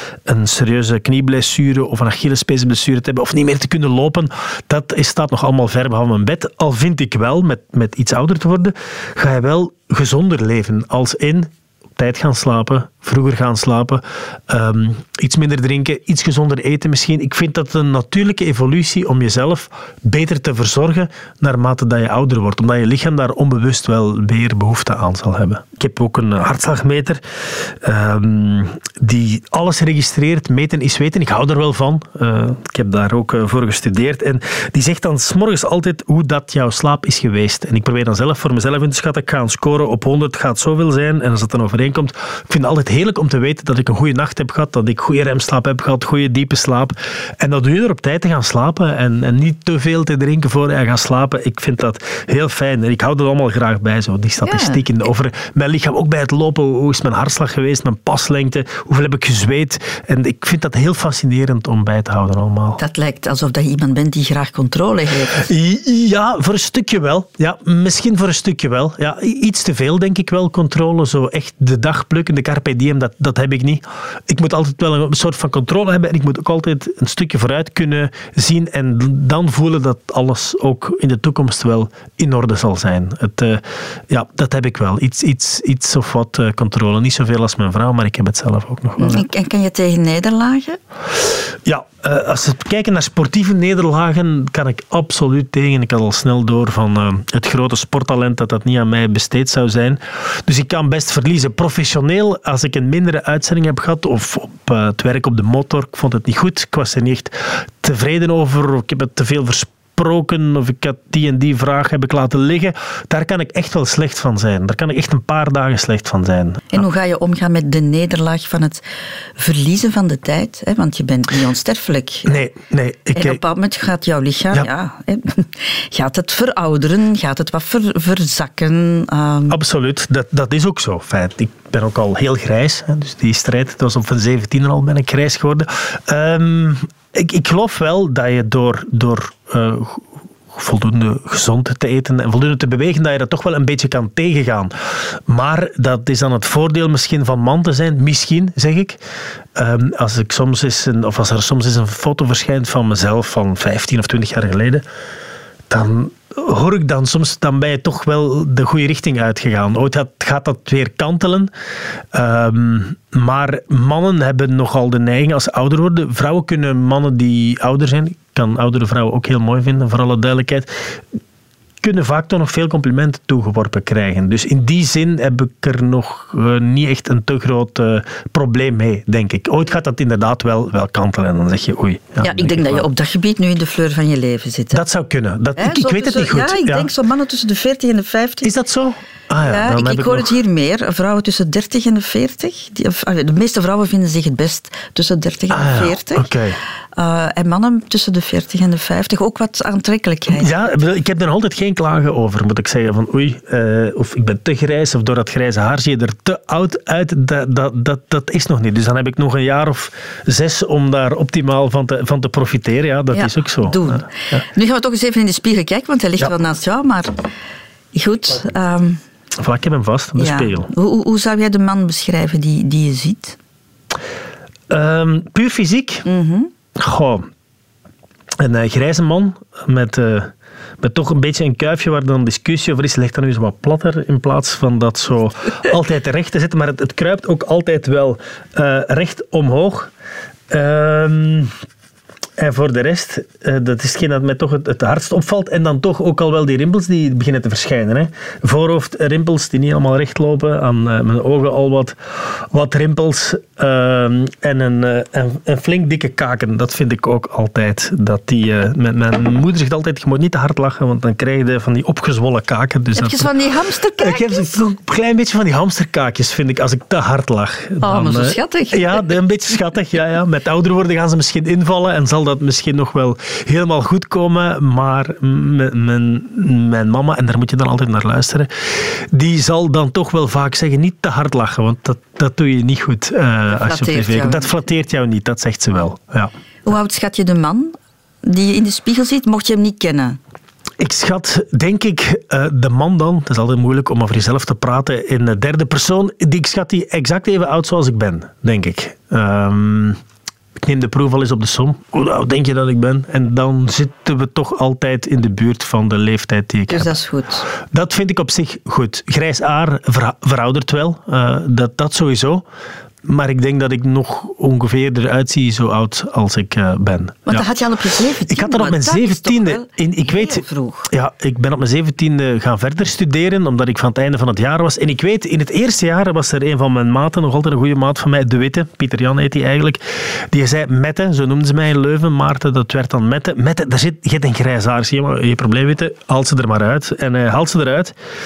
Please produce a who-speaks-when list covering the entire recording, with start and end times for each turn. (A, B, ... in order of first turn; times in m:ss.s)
0:00.2-1:02.8 A
0:54.4-0:54.8 B
1:02.8-1:05.5 B
1:05.3-1:29.3 A
1:29.0-1:30.8 B
1:31.6-1:56.8 A
1:56.7-1:58.8 B
1:59.4-2:02.4 B
2:02.2-2:03.4 A
2:03.1-2:09.6 B
2:09.5-2:29.0 A
2:29.5-2:34.8 A
2:35.7-2:41.5 A
2:42.1-2:50.9 A
2:51.8-3:02.9 A
3:02.2-3:04.8 B
3:04.7-3:06.9 A
3:05.6-3:08.5 B
3:08.4-3:10.3 A
3:09.4-3:16.3 B
3:15.5-3:16.6 A
3:16.9-3:20.6 B
3:20.3-3:34.4 A
3:33.1-3:37.2 B
3:37.9-3:39.0 B
3:39.4-3:40.7 A
3:40.2-3:43.4 B
3:44.7-3:46.0 A
3:46.0-3:46.5 B
3:46.7-3:47.3 A
3:48.4-3:59.9 A
4:00.5-4:01.6 A
4:02.4-4:23.3 A
4:22.9-4:24.6 B
4:24.0-4:46.3 A
4:27.8-4:29.2 B
4:43.5-4:44.5 B
4:46.6-4:50.2 B
4:50.8-5:00.0 A
5:00.6-5:06.9 A
5:06.7-5:07.5 B
5:07.6-5:12.4 A
5:13.0-5:17.4 A
5:17.2-5:20.9 B
5:18.3-5:37.9 A